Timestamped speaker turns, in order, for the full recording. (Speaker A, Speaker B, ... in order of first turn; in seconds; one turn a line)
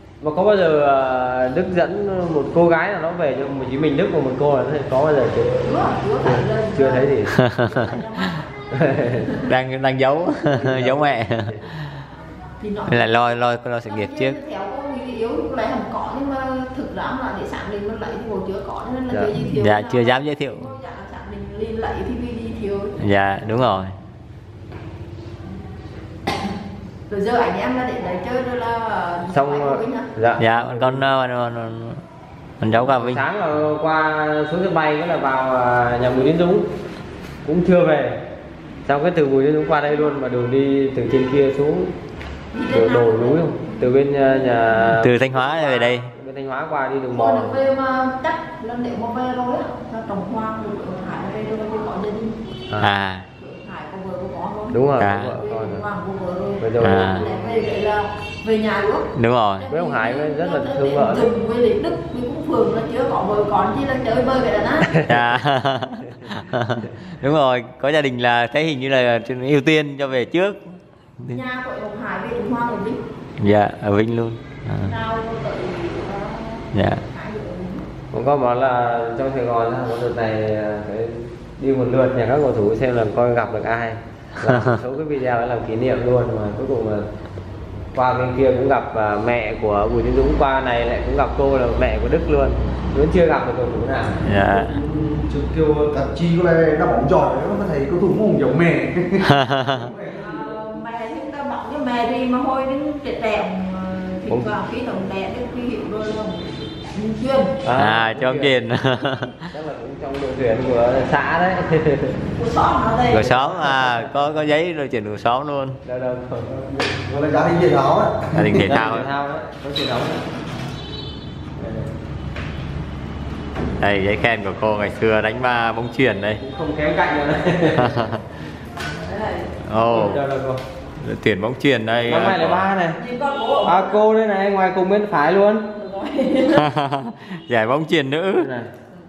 Speaker A: 0.2-5.7
Speaker B: 5.6-8.5
Speaker A: 6.2-7.4
Speaker C: 7.3-8.0
Speaker A: 8.7-9.3
Speaker B: 9.2-9.5
Speaker C: 9.5-11.7
Speaker A: 10.5-11.6
Speaker B: 12.6-13.3
Speaker C: 12.9-14.4
Speaker B: 13.9-23.0
Speaker C: 19.4-20.7
Speaker C: 23.0-23.9
Speaker B: 27.1-30.1
Speaker A: 29.3-31.0
Speaker C: 30.4-32.0
Speaker C: 32.6-33.2
Speaker A: 32.8-36.7
Speaker A: 37.5-38.2
Speaker A: 38.9-41.9
Speaker B: 42.5-45.0
Speaker A: 42.7-47.6
Speaker C: 44.9-46.1
Speaker B: 47.1-52.5
Speaker C: 52.8-53.3
Speaker B: 53.4-65.0
Speaker A: 54.7-55.8
Speaker C: 55.0-55.4
Speaker A: 56.6-57.4
Speaker C: 56.8-57.2
Speaker C: 59.1-59.6
Speaker A: 59.7-61.3
Speaker A: 64.9-65.2
Speaker C: 65.1-71.4
Speaker B: 71.3-73.0
Speaker C: 73.4-74.9
Speaker B: 74.8-77.9
Speaker C: 76.7-77.0
Speaker A: 78.1-87.1
Speaker C: 84.5-84.8
Speaker A: 87.9-94.2
Speaker C: 94.2-94.8
Speaker D: 94.2-100.6
Speaker C: 99.2-99.9
Speaker B: 100.1-107.6
Speaker A: 107.6-108.6
Speaker C: 107.8-109.5
Speaker A: 109.5-112.2
Speaker B: 112.1-113.7
Speaker C: 113.1-115.8
Speaker A: 115.8-116.9
Speaker D: 116.9-118.6
Speaker C: 118.3-119.1
Speaker A: 118.5-120.2
Speaker A: 121.6-121.9
Speaker C: 123.8-126.4
Speaker A: 126.4-128.0
Speaker C: 127.8-128.2
Speaker B: 129.1-129.6
Speaker C: 129.6-130.3
Speaker A: 129.8-130.6
Speaker C: 131.0-132.7
Speaker A: 132.1-133.0
Speaker B: 132.9-134.0
Speaker A: 133.6-135.7
Speaker B: 135.7-136.7
Speaker C: 136.6-138.5
Speaker A: 138.4-138.7